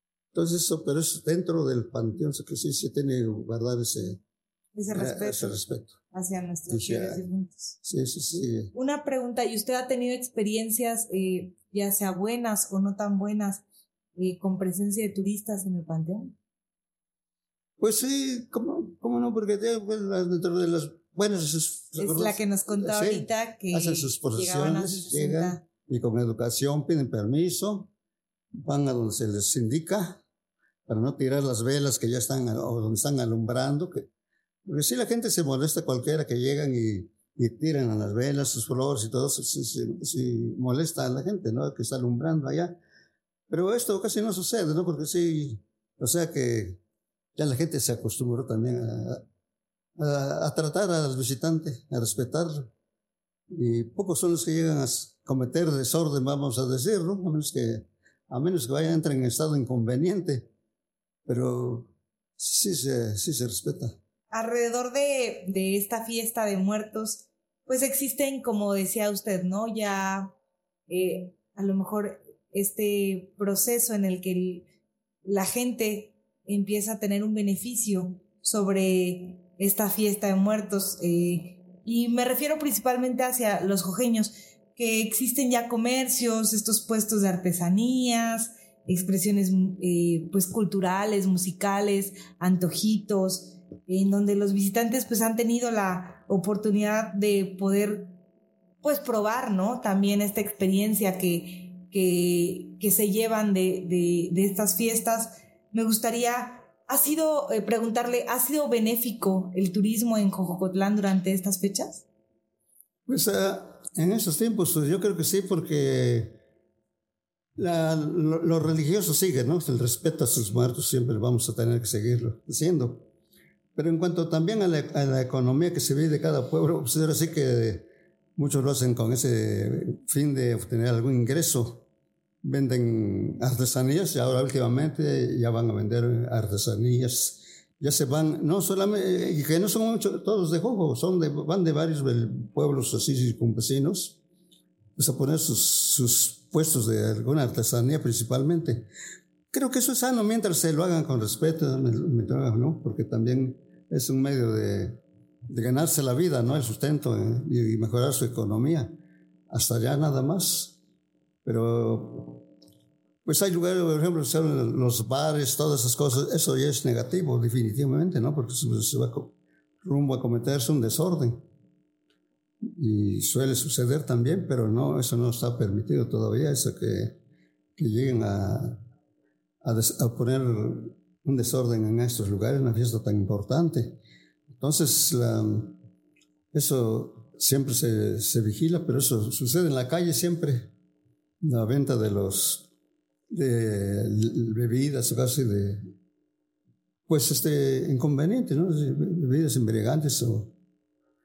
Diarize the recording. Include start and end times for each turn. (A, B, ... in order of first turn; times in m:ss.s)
0:00.3-0:04.2 A
0:04.7-0:05.6 B
0:04.9-0:06.0 A
0:06.1-0:07.8 B
0:06.7-0:07.2 A
0:07.8-0:08.7 A
0:08.7-0:13.6 B
0:14.2-0:16.4 B
0:17.8-0:27.9 A
0:22.0-0:25.6 B
0:28.6-0:30.2 A
0:30.9-0:34.1 A
0:34.6-0:42.8 A
0:43.5-0:46.8 A
0:47.4-0:49.2 A
0:50.0-0:52.7 A
0:53.5-1:00.5 A
1:01.3-1:04.0 A
1:04.3-1:10.3 B
1:10.9-1:14.7 B
1:15.2-1:38.1 B
1:38.8-1:52.0 B
1:53.1-1:56.4 A
1:57.6-2:03.1 A
2:03.8-2:11.8 A
2:12.4-2:24.2 A
2:25.0-2:28.9 A
2:29.5-2:39.0 A
2:39.5-2:40.8 A
2:41.4-2:42.5 A
2:43.2-2:51.4 A
2:52.6-2:57.2 A
2:57.8-2:58.8 A
2:59.6-3:04.0 A
3:04.6-3:05.8 A
3:06.5-3:10.7 A
3:11.4-3:12.7 A
3:13.3-3:15.8 A
3:17.1-3:20.5 A